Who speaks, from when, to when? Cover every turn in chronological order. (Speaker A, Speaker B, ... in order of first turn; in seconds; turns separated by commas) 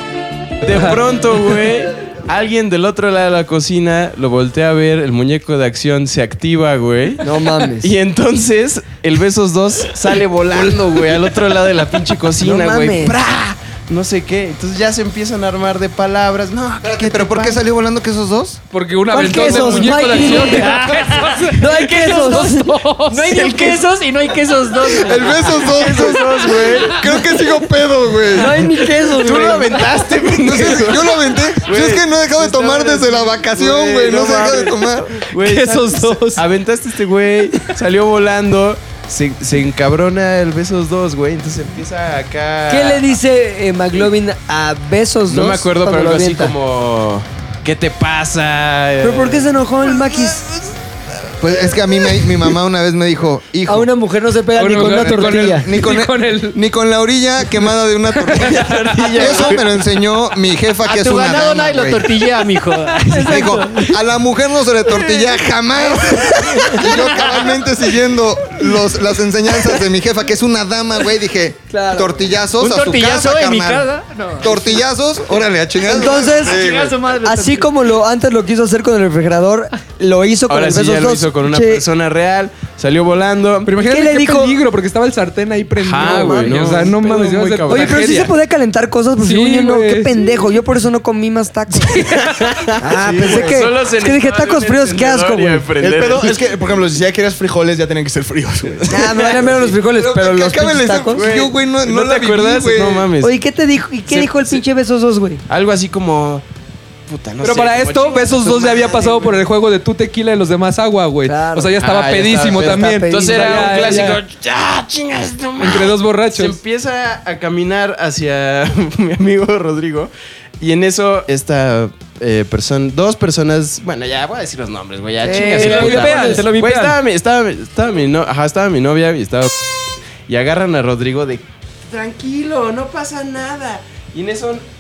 Speaker A: 0.6-17.6, Speaker B: 7.2-7.9, Speaker B: 12.4-13.2, Speaker C: 16.8-18.6, Speaker D: 18.7-23.5, Speaker B: 19.1-20.8, Speaker A: 19.2-20.0, Speaker E: 20.7-21.1, Speaker B: 21.5-22.7, Speaker E: 21.7-22.6, Speaker E: 23.1-26.0, Speaker A: 23.3-23.8, Speaker C: 24.9-28.6, Speaker A: 25.2-27.2, Speaker B: 28.3-29.9, Speaker A: 28.8-43.2, Speaker C: 30.3-35.2, Speaker D: 35.4-36.4, Speaker B: 42.7-46.5, Speaker A: 45.3-50.7, Speaker B: 49.0-50.5, Speaker C: 51.4-53.9, Speaker B: 53.7-55.7, Speaker D: 54.5-56.6, Speaker C: 54.8-62.2, Speaker D: 58.1-59.3, Speaker A: 58.4-59.6, Speaker E: 60.8-63.9, Speaker D: 63.0-63.6, Speaker C: 63.2-73.9, Speaker E: 66.7-67.7, Speaker B: 71.7-72.3, Speaker E: 72.6-74.8, Speaker C: 74.4-77.0, Speaker B: 75.8-76.6, Speaker E: 75.9-77.7, Speaker B: 77.2-81.8, Speaker A: 80.5-83.8, Speaker D: 83.7-88.3, Speaker B: 83.8-84.6, Speaker A: 85.8-88.1, Speaker B: 86.1-86.5, Speaker B: 87.7-92.1, Speaker D: 89.2-90.4, Speaker D: 91.8-92.5, Speaker A: 92.0-96.4, Speaker B: 92.8-95.7, Speaker F: 93.2-93.5, Speaker F: 95.8-99.0, Speaker A: 98.7-99.7, Speaker B: 98.9-101.3, Speaker C: 99.8-103.1, Speaker A: 101.1-103.4, Speaker B: 103.2-105.4, Speaker A: 104.1-104.6, Speaker A: 105.5-106.4, Speaker A: 107.1-109.3, Speaker D: 107.4-114.2, Speaker B: 108.5-109.3, Speaker B: 111.2-111.8, Speaker A: 111.8-129.7, Speaker B: 112.4-114.0, Speaker D: 115.6-116.6, Speaker E: 125.2-127.0, Speaker B: 125.3-126.4, Speaker D: 125.5-126.8, Speaker A: 130.3-134.7